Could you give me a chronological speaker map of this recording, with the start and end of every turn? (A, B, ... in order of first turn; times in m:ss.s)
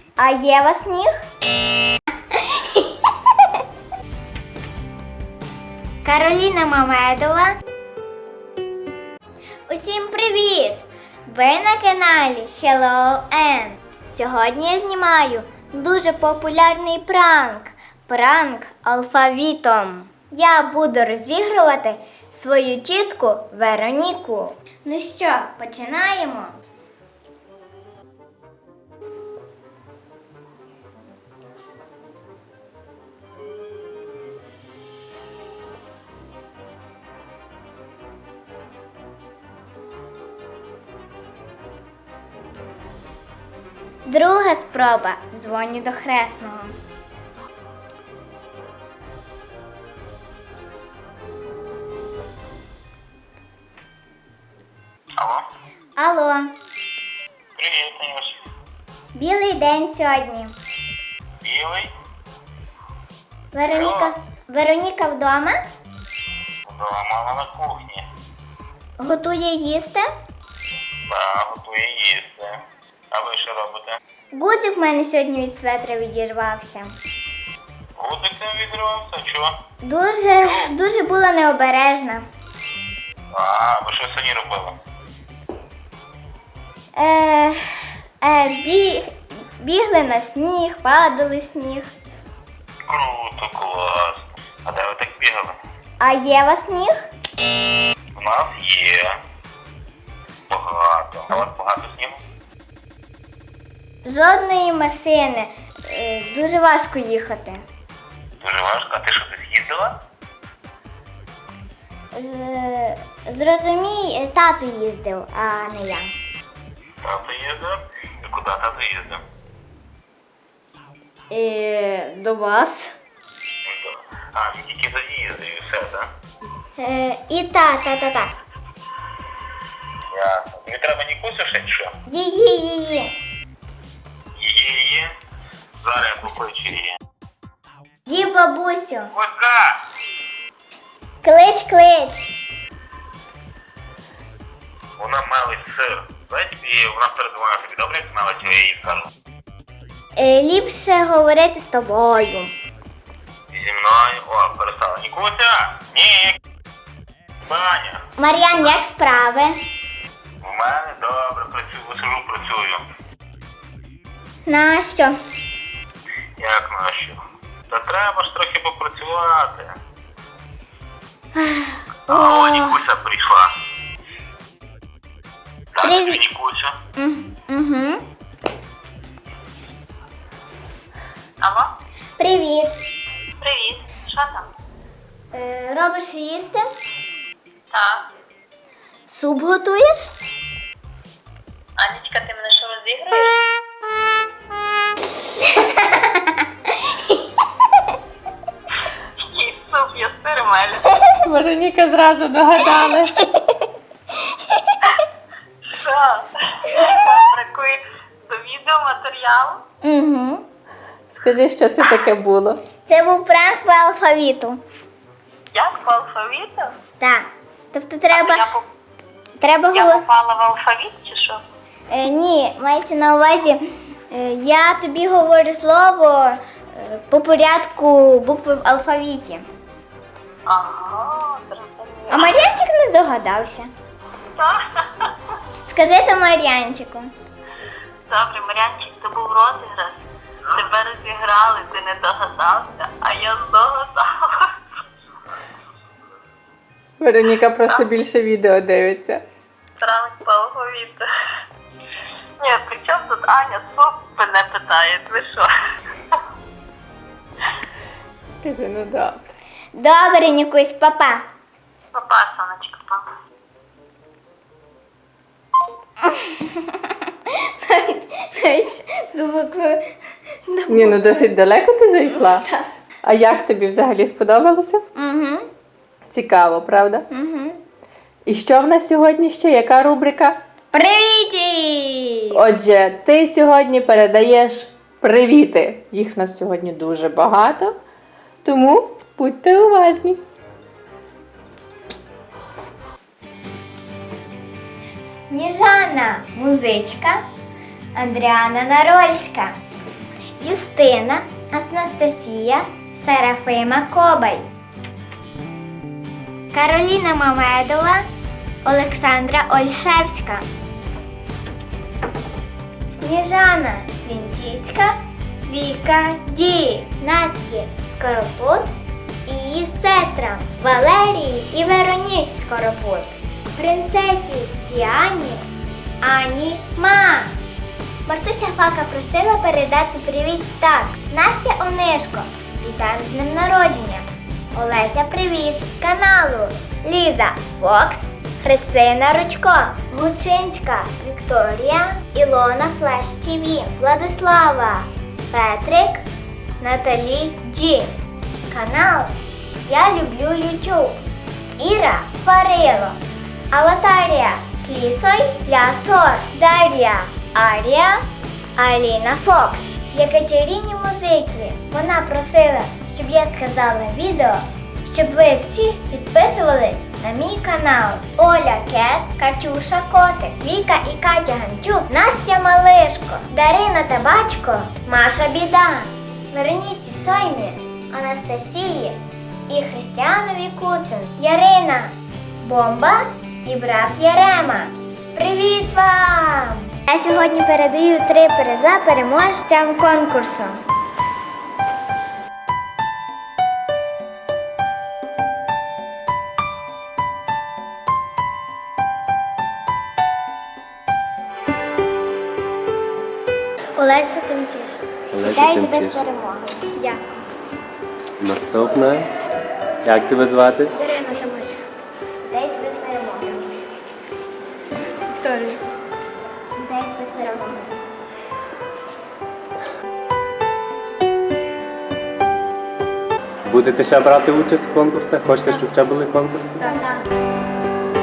0:00.2-0:01.1 A
0:02.4-0:02.9 A
0:06.0-0:07.6 A
0:09.7-0:26.6 A
0:44.1-0:46.8 A
0:55.2-0:55.4 B
0:56.0-0:56.5 A
0:57.6-0:58.4 B
0:59.2-1:00.5 A
1:01.4-1:01.9 B
1:03.5-1:05.6 A
1:03.7-1:04.1 B
1:06.6-1:08.1 B
1:09.0-1:10.1 A
1:11.1-1:14.0 B
1:14.3-1:16.9 A
1:18.0-1:19.6 B
1:19.8-1:22.3 A
1:20.4-1:20.7 B
1:23.3-1:24.8 B
1:27.0-1:31.9 A
1:32.9-1:35.6 B
1:36.0-1:37.0 A
1:38.2-1:39.2 B
1:40.5-1:42.2 B
1:44.1-1:47.6 A
1:48.4-1:50.0 B
1:52.1-1:56.1 A
1:57.0-1:59.2 B
2:01.3-2:03.0 A
2:03.7-2:06.1 B
2:06.8-2:08.3 A
2:10.1-2:11.9 B
2:12.1-2:13.1 A
2:14.4-2:15.2 B
2:15.8-2:17.0 B
2:18.1-2:19.1 A
2:19.1-2:19.8 B
2:21.2-2:22.3 A
2:25.0-2:29.1 B
2:30.2-2:32.5 A
2:33.5-2:36.4 B
2:37.5-2:38.1 B
2:38.2-2:39.6 A
2:40.4-2:42.8 B
2:44.5-2:45.2 A
2:46.4-2:49.8 B
2:51.4-2:52.8 A
2:52.1-2:53.5 B
2:55.8-2:56.8 B
2:55.8-2:56.2 A
2:57.0-2:58.0 A
3:01.4-3:01.7 C
3:02.2-3:02.8 A
3:03.4-3:04.5 C
3:05.3-3:06.6 A
3:07.7-3:08.1 C
3:09.1-3:10.2 A
3:11.8-3:13.4 C
3:15.5-3:16.3 A
3:19.2-3:21.0 C
3:21.2-3:23.2 D
3:23.2-3:23.6 A
3:24.3-3:24.8 A
3:25.7-3:29.6 C
3:29.8-3:30.4 A
3:31.1-3:32.6 D
3:32.9-3:34.6 A
3:35.5-3:36.8 C
3:37.0-3:38.4 A
3:38.1-3:38.6 C
3:39.4-3:40.1 A
3:39.7-3:41.4 C
3:41.9-3:49.5 A
3:50.5-3:52.4 C
3:52.1-3:53.7 A
3:54.4-3:55.4 C
3:55.6-3:57.1 A
3:58.1-4:04.6 C
4:07.0-4:09.2 D
4:09.8-4:11.1 C
4:12.4-4:15.5 C
4:18.4-4:19.2 D
4:19.8-4:21.3 A
4:21.9-4:23.1 C
4:26.0-4:29.9 A
4:30.5-4:31.3 A
4:30.7-4:32.5 D
4:32.1-4:32.7 A
4:33.0-4:34.8 D
4:35.0-4:35.5 A
4:36.1-4:37.0 D
4:37.1-4:37.6 A
4:38.3-4:40.4 D
4:40.7-4:42.4 A
4:42.3-4:47.8 D
4:48.4-4:50.2 D
4:55.3-4:57.2 A
4:58.0-4:59.6 A
5:00.4-5:04.5 A
5:06.5-5:08.0 A
5:08.6-5:10.4 A
5:12.9-5:18.7 A
5:19.3-5:25.4 A
5:26.0-5:27.4 A
5:28.0-5:46.0 A
5:46.6-5:48.0 A
5:48.5-5:49.1 A
5:49.7-5:51.0 A
5:51.6-5:53.0 A
5:53.5-5:58.1 A
5:58.6-6:30.6 A
6:43.8-6:47.1 A
6:45.1-6:46.0 E
6:48.2-6:49.1 E
6:49.8-6:50.7 E
6:50.8-6:51.6 A
6:52.3-6:53.6 A
6:55.1-6:55.6 A
6:56.6-6:57.8 A
7:03.5-7:06.7 E
7:06.6-7:07.1 A